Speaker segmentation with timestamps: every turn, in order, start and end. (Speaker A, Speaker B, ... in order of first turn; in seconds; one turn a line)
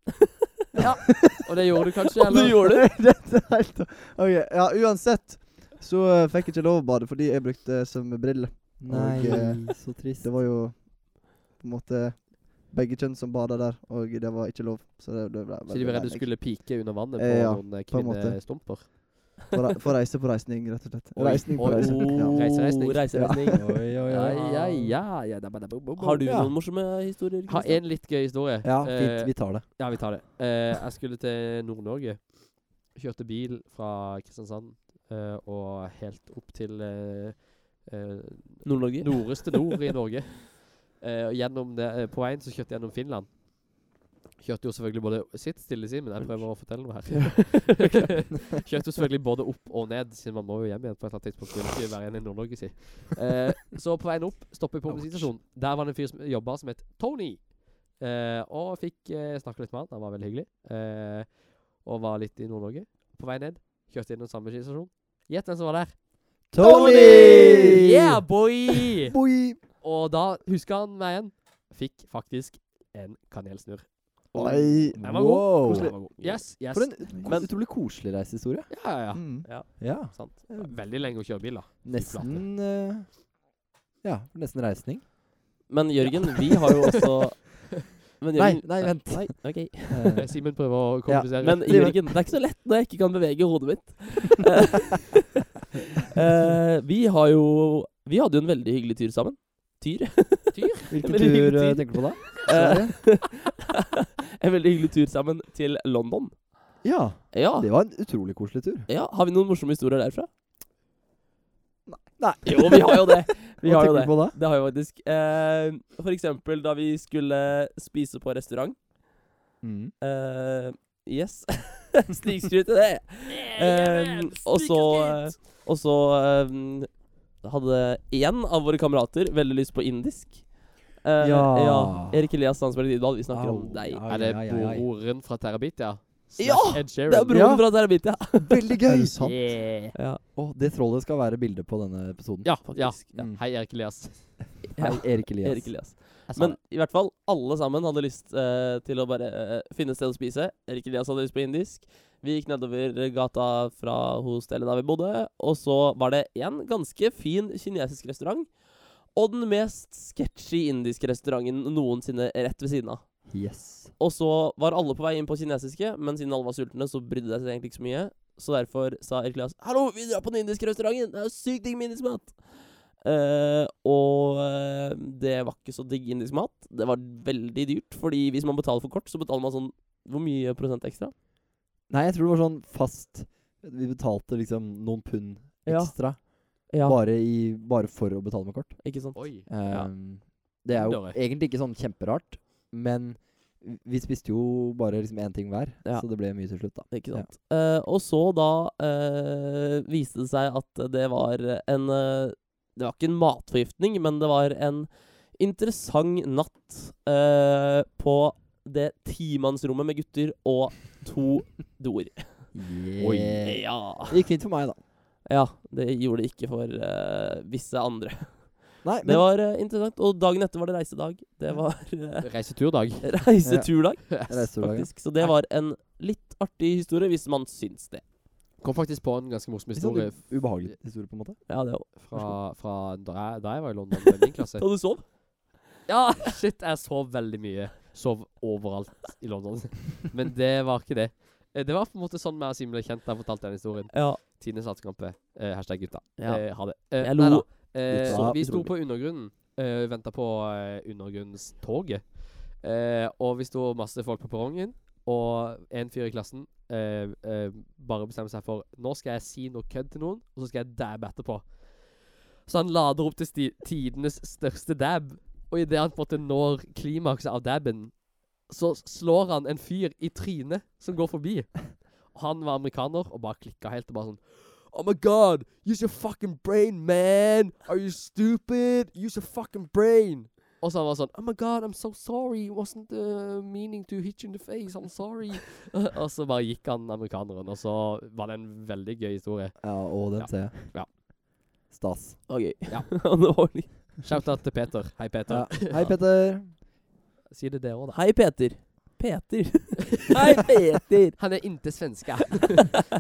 Speaker A: 0.8-2.6
Speaker B: 0.8-1.4
Speaker C: 2.2-2.8
Speaker B: 2.7-22.5
Speaker D: 8.8-10.3
Speaker A: 15.7-19.4
Speaker A: 21.1-23.4
Speaker C: 21.6-23.7
Speaker B: 23.1-23.8
Speaker D: 23.5-25.0
Speaker A: 24.1-26.5
Speaker C: 26.0-27.9
Speaker D: 26.2-26.5
Speaker A: 27.5-43.9
Speaker D: 28.6-29.7
Speaker C: 38.6-39.8
Speaker A: 44.4-66.0
Speaker D: 66.5-68.2
Speaker C: 66.6-67.7
Speaker A: 67.3-74.2
Speaker D: 69.1-69.6
Speaker C: 74.3-74.9
Speaker B: 74.3-75.0
Speaker D: 74.9-76.0
Speaker A: 75.0-77.0
Speaker B: 75.7-76.0
Speaker C: 76.2-76.5
Speaker D: 76.6-78.8
Speaker C: 77.2-77.5
Speaker A: 78.7-79.4
Speaker B: 79.1-79.5
Speaker C: 79.5-80.5
Speaker D: 79.8-80.3
Speaker A: 80.5-82.5
Speaker D: 81.8-83.3
Speaker D: 84.0-85.2
Speaker C: 85.7-90.2
Speaker D: 86.0-86.7
Speaker D: 88.4-90.5
Speaker A: 90.2-91.9
Speaker D: 91.0-92.2
Speaker C: 91.4-95.2
Speaker C: 96.1-103.5
Speaker A: 100.5-100.9
Speaker D: 100.9-102.8
Speaker B: 102.5-102.9
Speaker C: 104.4-106.6
Speaker D: 106.8-108.9
Speaker C: 107.3-107.7
Speaker C: 108.9-110.3
Speaker D: 112.2-114.4
Speaker C: 112.5-118.8
Speaker D: 119.6-119.9
Speaker C: 120.0-134.0
Speaker A: 123.3-125.4
Speaker D: 131.2-132.2
Speaker D: 133.3-134.9
Speaker A: 134.1-137.5
Speaker C: 136.4-138.5
Speaker D: 137.3-139.2
Speaker B: 138.8-139.5
Speaker A: 139.2-139.9
Speaker C: 139.9-140.2
Speaker D: 140.3-143.4
Speaker A: 142.4-144.5
Speaker C: 142.7-143.3
Speaker C: 144.7-181.1
Speaker D: 144.8-145.9
Speaker A: 146.3-146.6
Speaker D: 163.3-163.9
Speaker D: 181.9-197.3
Speaker C: 185.7-187.0
Speaker C: 188.8-189.9
Speaker A: 189.2-189.5
Speaker A: 190.7-191.2
Speaker C: 195.8-212.6
Speaker D: 212.5-214.8
Speaker A: 213.0-213.4
Speaker C: 213.4-214.1
Speaker C: 215.2-228.0
Speaker D: 218.8-219.3
Speaker A: 222.2-223.2
Speaker D: 223.4-224.9
Speaker A: 228.6-230.7
Speaker D: 229.7-231.4
Speaker C: 231.5-232.3
Speaker A: 231.9-234.8
Speaker C: 234.0-235.7
Speaker A: 235.9-290.9
Speaker C: 243.9-244.2
Speaker C: 246.2-248.8
Speaker D: 247.9-248.4
Speaker D: 289.6-291.1
Speaker D: 291.7-292.2
Speaker C: 292.3-294.0
Speaker A: 292.7-293.4
Speaker A: 294.0-296.0
Speaker D: 295.3-296.6
Speaker A: 297.3-298.0
Speaker C: 297.9-301.6
Speaker A: 301.2-302.9